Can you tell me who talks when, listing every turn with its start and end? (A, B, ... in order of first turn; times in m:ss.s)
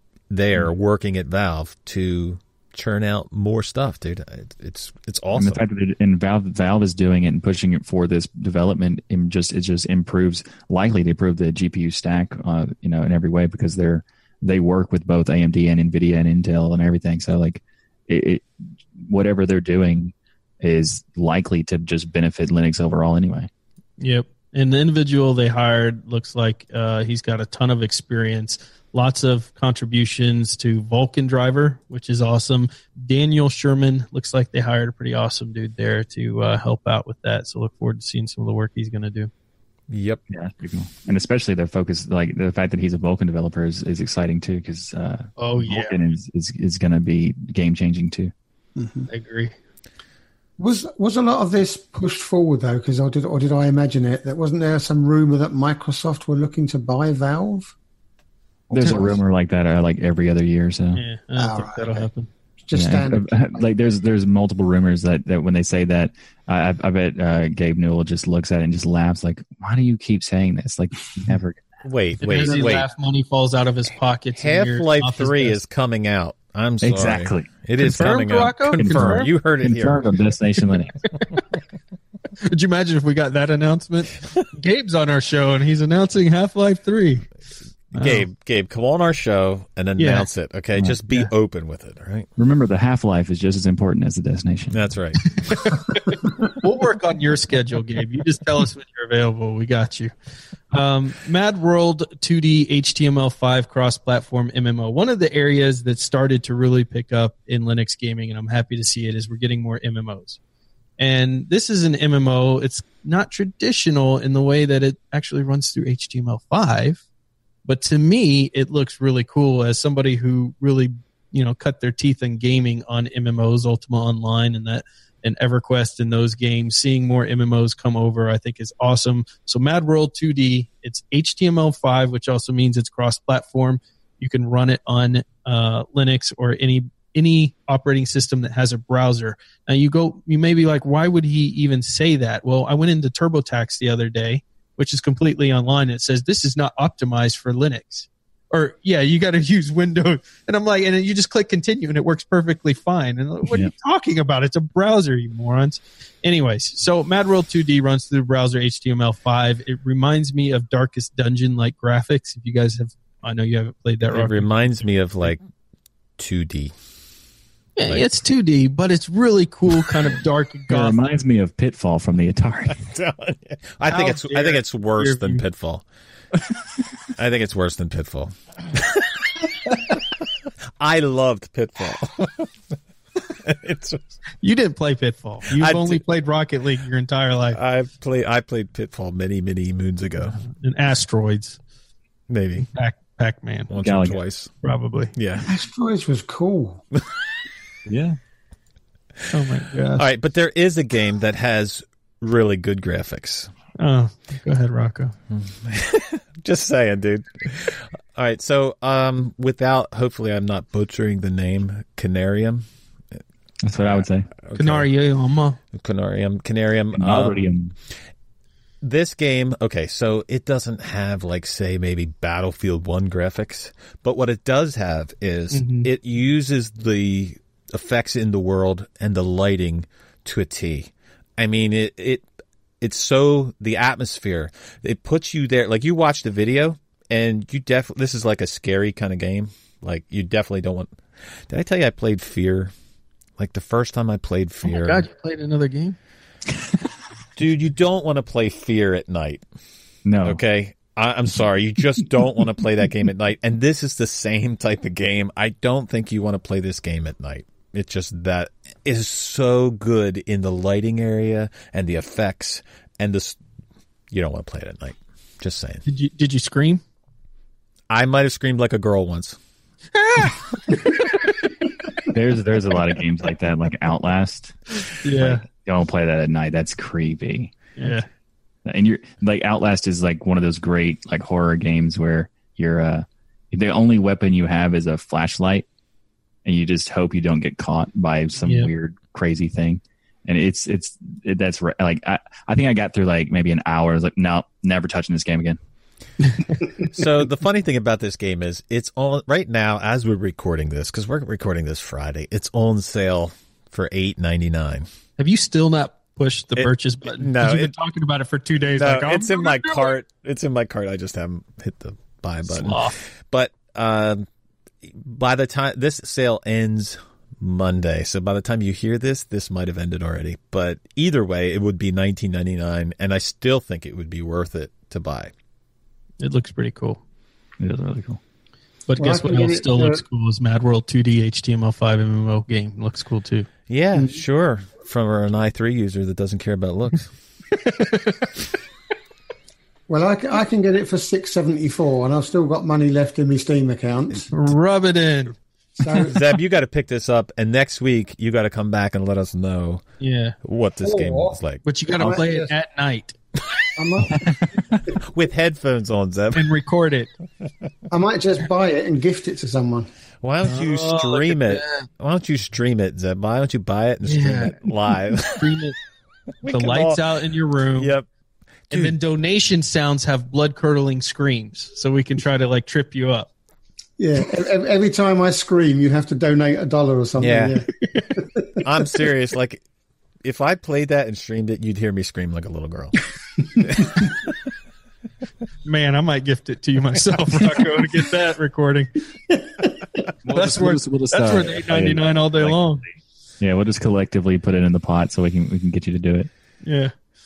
0:00.3-0:05.6 A
0:05.3-0:23.5 B
0:24.0-0:39.3 C
0:39.9-0:40.2 A
0:40.3-0:48.3 B
0:45.4-0:46.0 C
0:48.8-0:49.1 D
0:49.1-0:49.5 C
0:50.6-0:57.8 D
0:58.7-1:01.0 B
0:58.8-0:59.2 D
1:00.9-1:02.3 C
1:01.4-1:02.1 D
1:02.7-1:03.7 D
1:02.7-1:11.7 B
1:11.8-1:12.9 A
1:12.2-1:15.6 C
1:14.4-1:20.0 A
1:16.8-1:17.5 B
1:17.8-1:19.3 C
1:18.7-1:21.0 B
1:22.4-1:27.3 C
1:27.9-1:32.3 A
1:27.9-1:28.3 C
1:30.0-1:30.3 C
1:32.4-1:34.8 B
1:34.7-1:35.3 A
1:35.5-1:40.1 C
1:40.7-1:50.4 C
1:51.0-1:57.0 C
1:57.7-2:44.5 C
2:44.1-2:45.4 A
2:46.2-2:46.7 A
2:47.8-2:51.0 C
2:50.7-2:52.8 B
2:52.8-2:55.8 A
2:53.9-2:55.4 C
2:57.2-2:59.2 A
3:00.8-3:02.5 A
3:03.4-3:04.0 A
3:04.4-3:07.6 C
3:05.5-3:06.0 A
3:07.5-3:10.4 A
3:10.4-3:11.6 C
3:12.3-3:12.7 A
3:12.7-3:13.7 C
3:13.7-3:14.5 A
3:13.8-3:14.2 B
3:14.6-3:15.1 C
3:15.1-3:15.5 A
3:15.5-3:16.8 D
3:17.9-3:18.2 B
3:19.3-3:20.0 C
3:20.0-3:23.5 A
3:23.8-3:25.2 C
3:25.3-3:33.2 A
3:33.6-3:34.3 B
3:34.4-3:34.9 A
3:34.6-3:35.6 C
3:35.7-3:37.4 A
3:37.0-3:37.7 B
3:38.8-3:52.2 A
3:45.5-3:45.9 C
3:52.8-4:02.7 A
4:03.4-4:05.0 A
4:04.6-4:06.0 C
4:07.4-4:09.4 A
4:10.0-4:10.4 B
4:10.2-4:23.4 A
4:24.1-4:25.8 A
4:25.9-4:26.8 C
4:27.9-4:29.4 A
4:29.9-4:31.2 C
4:32.1-4:34.6 B
4:35.0-4:35.4 C
4:35.2-4:37.5 B
4:37.8-4:38.1 C
4:38.7-4:45.7 B
4:46.4-4:55.6 B
4:48.4-4:48.7 C
4:56.8-5:04.9 A
5:05.2-5:10.0 C
5:06.6-5:07.7 A
5:08.8-5:14.3 A
5:12.5-5:13.0 C
5:14.8-5:25.3 A
5:26.2-5:27.0 C
5:27.6-5:28.2 B
5:28.9-5:33.5 C
5:29.0-5:30.0 D
5:33.7-5:37.2 A
5:34.0-5:34.2 D
5:37.6-5:38.3 C
5:39.9-5:44.3 D
5:44.3-5:45.4 C
5:45.8-5:46.2 D
5:46.0-5:49.9 A
5:50.0-5:50.4 C
5:50.4-5:51.7 A
5:50.8-5:51.4 D
5:51.6-5:53.2 C
5:52.0-5:52.5 D
5:53.8-5:54.3 D
5:54.1-5:54.5 B
5:55.0-5:56.5 A
5:56.3-5:57.1 C
5:57.9-5:59.9 D
6:00.2-6:05.5 A
6:00.4-6:01.9 C
6:04.0-6:04.7 C
6:05.3-6:05.8 C
6:06.4-6:07.0 A
6:06.4-6:08.0 C
6:07.8-6:08.1 A
6:08.7-6:09.0 A
6:08.7-6:13.3 C
6:14.0-6:18.6 D
6:17.2-6:17.6 A
6:18.6-6:19.6 A
6:20.2-6:23.1 A
6:23.6-6:24.3 A
6:25.6-6:29.0 C
6:30.2-6:36.3 B
6:30.3-6:32.8 C
6:36.6-6:36.9 C